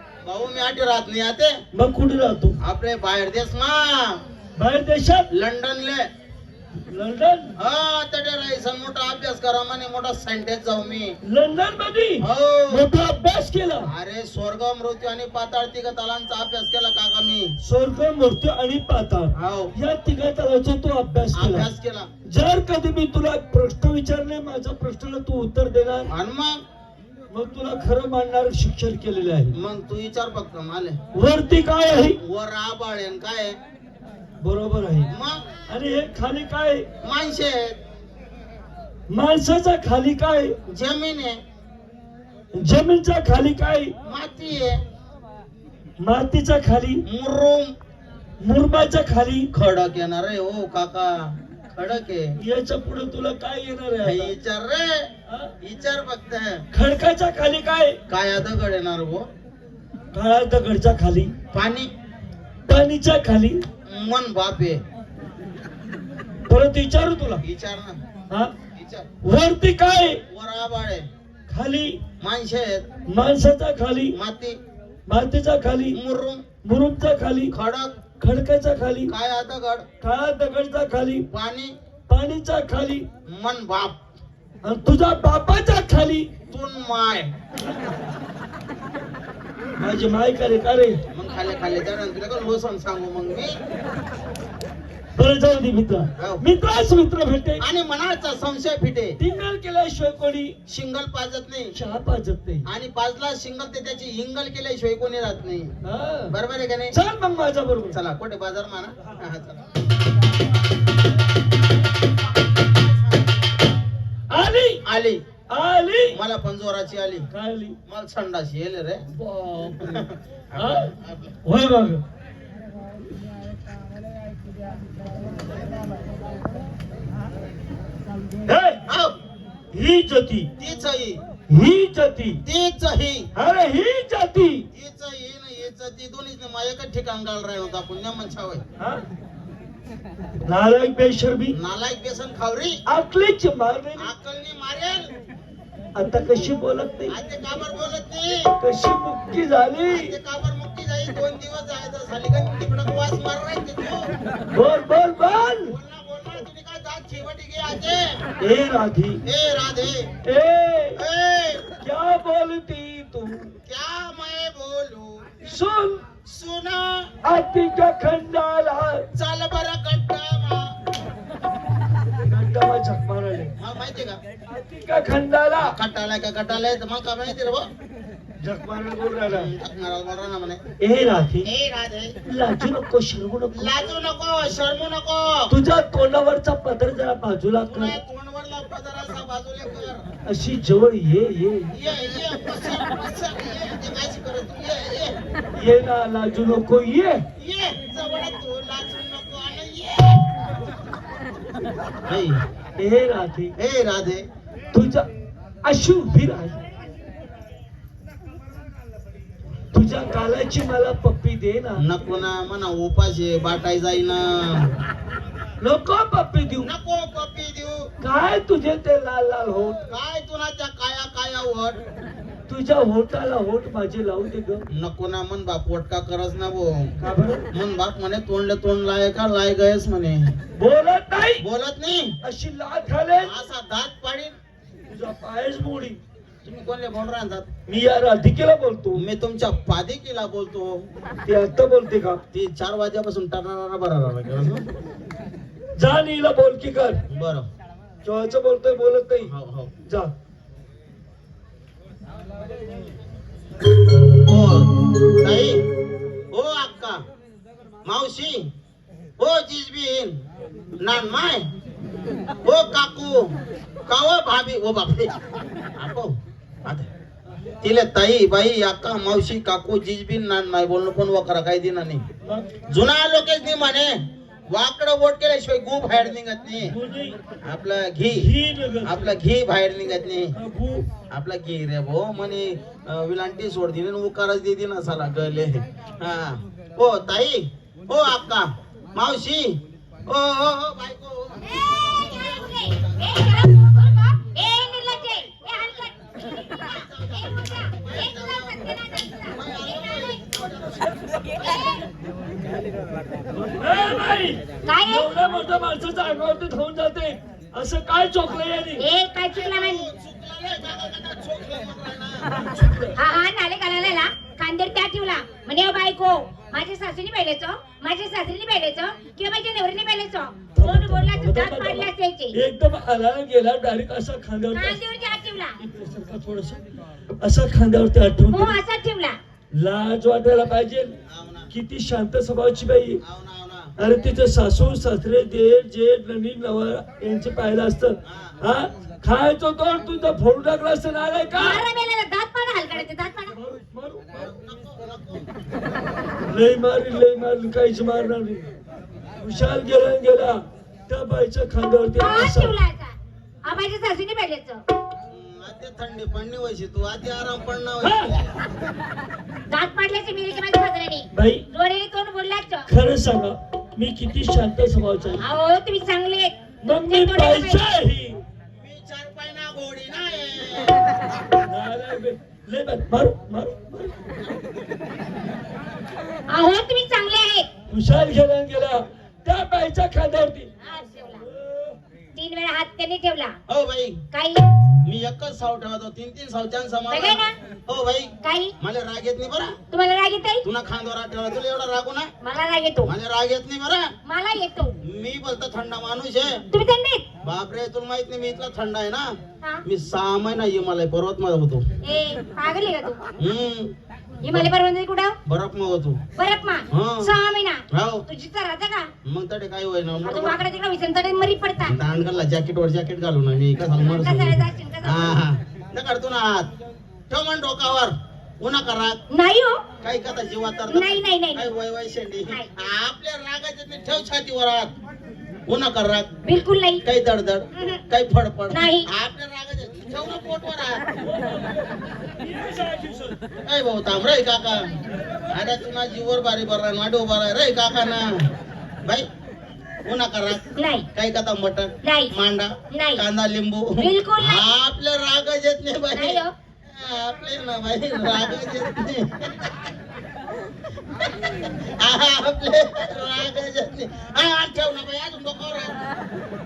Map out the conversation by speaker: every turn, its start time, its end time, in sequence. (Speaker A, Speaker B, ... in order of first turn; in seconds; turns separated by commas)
Speaker A: 0.2-1.6, Speaker B: 1.7-2.6, Speaker A: 2.6-4.2, Speaker B: 4.6-5.3, Speaker A: 5.3-6.1, Speaker B: 6.9-7.5, Speaker A: 7.6-11.2, Speaker B: 11.2-13.9, Speaker A: 12.2-12.8, Speaker A: 13.8-17.6, Speaker B: 17.6-21.7, Speaker A: 19.3-19.7, Speaker A: 21.3-22.1, Speaker B: 22.2-26.1, Speaker A: 26.1-26.6, Speaker B: 27.3-29.5, Speaker A: 29.5-31.0, Speaker B: 31.1-32.2, Speaker A: 32.2-33.6, Speaker B: 34.4-35.1, Speaker A: 35.1-35.5, Speaker B: 35.7-36.9, Speaker A: 37.0-37.8, Speaker B: 39.1-40.5, Speaker A: 40.7-41.4, Speaker B: 42.5-43.9, Speaker A: 44.0-44.8, Speaker B: 46.0-47.0, Speaker A: 47.0-47.7, Speaker B: 48.4-49.5, Speaker A: 49.5-52.3, Speaker B: 52.4-54.3, Speaker A: 54.0-55.1, Speaker A: 55.6-56.6, Speaker B: 56.7-58.0, Speaker A: 58.1-59.3, Speaker B: 60.1-61.3, Speaker A: 61.5-61.9, Speaker B: 62.6-63.6, Speaker A: 63.9-64.8, Speaker B: 66.5-67.4, Speaker A: 67.4-68.0, Speaker A: 68.7-69.1, Speaker B: 69.2-70.2, Speaker A: 70.3-71.1, Speaker B: 71.5-72.0, Speaker A: 72.2-72.8, Speaker B: 73.1-74.2, Speaker A: 74.1-74.6, Speaker B: 75.1-76.0, Speaker A: 75.9-76.4, Speaker B: 76.6-77.5, Speaker A: 77.5-77.9, Speaker B: 78.2-79.1, Speaker A: 79.1-79.8, Speaker B: 80.0-81.2, Speaker A: 81.3-81.7, Speaker B: 82.1-83.0, Speaker A: 83.2-83.9, Speaker B: 84.6-86.3, Speaker A: 86.5-87.3, Speaker B: 89.8-91.0, Speaker A: 91.1-93.5, Speaker B: 95.2-97.6, Speaker A: 96.2-96.4, Speaker A: 97.6-99.2, Speaker B: 99.2-100.5, Speaker A: 100.7-101.7, Speaker B: 101.7-102.7, Speaker A: 102.7-105.7, Speaker B: 105.8-106.3, Speaker A: 106.3-107.0, Speaker B: 106.9-108.0, Speaker A: 107.9-109.7, Speaker B: 114.3-114.8, Speaker A: 114.8-115.2, Speaker B: 115.5-116.2, Speaker A: 116.1-117.3, Speaker B: 117.3-117.8, Speaker A: 117.9-119.0, Speaker B: 119.1-119.9, Speaker A: 119.8-121.3, Speaker B: 120.6-120.9, Speaker B: 121.4-122.0, Speaker B: 128.4-128.8, Speaker A: 128.9-129.1, Speaker B: 129.7-130.5, Speaker A: 130.6-131.2, Speaker B: 131.5-132.4, Speaker A: 132.4-133.3, Speaker B: 133.3-134.7, Speaker A: 134.7-138.6, Speaker B: 140.4-141.6, Speaker A: 141.5-142.8, Speaker B: 142.8-144.1, Speaker A: 143.9-145.1, Speaker B: 145.9-147.1, Speaker A: 147.1-148.5, Speaker B: 148.6-150.1, Speaker A: 149.9-154.1, Speaker B: 154.5-155.7, Speaker A: 155.6-158.2, Speaker B: 158.4-159.2, Speaker A: 159.2-160.1, Speaker B: 160.2-161.0, Speaker A: 161.0-161.7, Speaker B: 161.8-163.5, Speaker A: 163.7-165.2, Speaker B: 165.4-166.1, Speaker A: 166.2-167.1, Speaker B: 167.2-169.1, Speaker A: 169.1-170.8, Speaker B: 172.2-173.5, Speaker A: 173.6-174.2, Speaker B: 174.5-175.8, Speaker A: 175.6-177.7, Speaker B: 178.4-179.5, Speaker A: 179.3-180.6, Speaker B: 180.8-181.5, Speaker A: 181.4-182.2, Speaker B: 182.2-183.7, Speaker A: 183.5-185.5, Speaker B: 185.5-187.9, Speaker A: 187.7-190.1, Speaker B: 190.2-191.7, Speaker A: 191.7-195.2, Speaker B: 195.5-197.2, Speaker A: 197.4-200.3, Speaker A: 202.1-202.4, Speaker B: 202.8-203.5, Speaker A: 203.6-204.2, Speaker B: 204.7-205.1, Speaker B: 205.6-206.6, Speaker B: 209.7-211.8, Speaker A: 211.8-214.7, Speaker B: 215.6-216.7, Speaker A: 216.6-217.9, Speaker B: 218.0-219.8, Speaker A: 219.9-221.8, Speaker B: 222.5-224.7, Speaker A: 224.7-226.9, Speaker B: 227.0-227.4, Speaker A: 227.5-230.3, Speaker B: 230.6-231.4, Speaker A: 231.4-232.2, Speaker B: 232.2-233.3, Speaker A: 233.2-234.3, Speaker B: 234.8-236.0, Speaker A: 236.4-237.5, Speaker B: 237.7-239.0, Speaker A: 238.9-240.9, Speaker B: 241.2-242.2, Speaker A: 242.3-244.7, Speaker B: 245.8-247.0, Speaker A: 247.1-247.5, Speaker B: 248.0-249.3, Speaker A: 249.2-249.7, Speaker B: 249.8-250.1, Speaker A: 254.1-255.6, Speaker A: 256.3-257.0, Speaker A: 257.8-258.5, Speaker A: 259.2-260.2, Speaker A: 260.8-261.5, Speaker A: 262.4-263.3, Speaker A: 263.9-265.1, Speaker A: 265.8-266.1, Speaker A: 267.6-272.0, Speaker B: 272.2-272.5, Speaker A: 272.7-276.7, Speaker B: 276.6-277.2, Speaker A: 277.4-278.3, Speaker B: 278.1-279.2, Speaker A: 278.8-280.3, Speaker B: 280.3-280.9, Speaker A: 281.1-293.5, Speaker C: 291.5-300.2, Speaker A: 295.4-295.8, Speaker A: 296.6-301.7, Speaker C: 301.4-301.8, Speaker B: 303.3-308.8, Speaker C: 304.6-305.1, Speaker C: 308.8-309.8, Speaker A: 309.3-312.5, Speaker B: 312.4-312.9, Speaker C: 312.9-322.4, Speaker B: 320.5-324.8, Speaker C: 324.5-325.6, Speaker B: 325.6-326.6, Speaker B: 327.2-328.6, Speaker C: 328.3-329.2, Speaker B: 329.5-330.9, Speaker A: 331.1-331.5, Speaker B: 331.5-333.0, Speaker A: 333.0-333.7, Speaker B: 333.8-341.6, Speaker A: 338.1-338.4, Speaker C: 341.4-343.3, Speaker B: 343.3-344.3, Speaker A: 344.1-345.3, Speaker B: 346.3-348.4, Speaker B: 349.2-352.6, Speaker C: 351.9-354.6, Speaker A: 355.1-358.3, Speaker B: 357.8-358.2, Speaker C: 359.5-362.7, Speaker B: 361.1-361.5, Speaker B: 362.6-365.2, Speaker C: 365.2-367.6, Speaker B: 366.6-368.2, Speaker A: 368.6-371.0, Speaker B: 371.4-374.1, Speaker C: 376.3-377.5, Speaker B: 377.7-380.5, Speaker C: 380.6-381.2, Speaker B: 381.3-381.8, Speaker C: 382.1-383.4, Speaker A: 383.5-384.0, Speaker C: 384.1-384.5, Speaker A: 384.8-389.6, Speaker C: 386.9-387.3, Speaker C: 388.2-388.5, Speaker C: 389.7-390.4, Speaker A: 390.4-392.1, Speaker C: 392.2-392.9, Speaker A: 392.8-393.9, Speaker C: 394.0-394.8, Speaker A: 394.8-396.4, Speaker C: 396.5-397.0, Speaker A: 397.2-401.6, Speaker C: 401.8-403.0, Speaker A: 403.2-403.7, Speaker C: 404.2-405.2, Speaker A: 404.2-404.5, Speaker A: 405.2-406.0, Speaker C: 406.2-408.9, Speaker A: 406.7-407.1, Speaker A: 407.7-408.0, Speaker A: 409.0-410.4, Speaker C: 410.0-411.7, Speaker A: 411.6-416.5, Speaker C: 413.8-415.2, Speaker A: 417.1-419.0, Speaker C: 419.1-419.6, Speaker A: 419.8-424.7, Speaker C: 420.7-421.5, Speaker A: 425.5-426.1, Speaker C: 426.2-426.8, Speaker A: 426.8-430.8, Speaker C: 427.5-427.8, Speaker C: 428.5-428.9, Speaker B: 431.0-433.2, Speaker A: 433.4-434.8, Speaker B: 435.1-435.4, Speaker A: 435.3-438.3, Speaker A: 439.8-449.4, Speaker C: 440.6-440.9, Speaker C: 441.8-442.1, Speaker C: 442.7-443.0, Speaker C: 443.8-444.5, Speaker C: 445.9-446.3, Speaker A: 451.0-455.8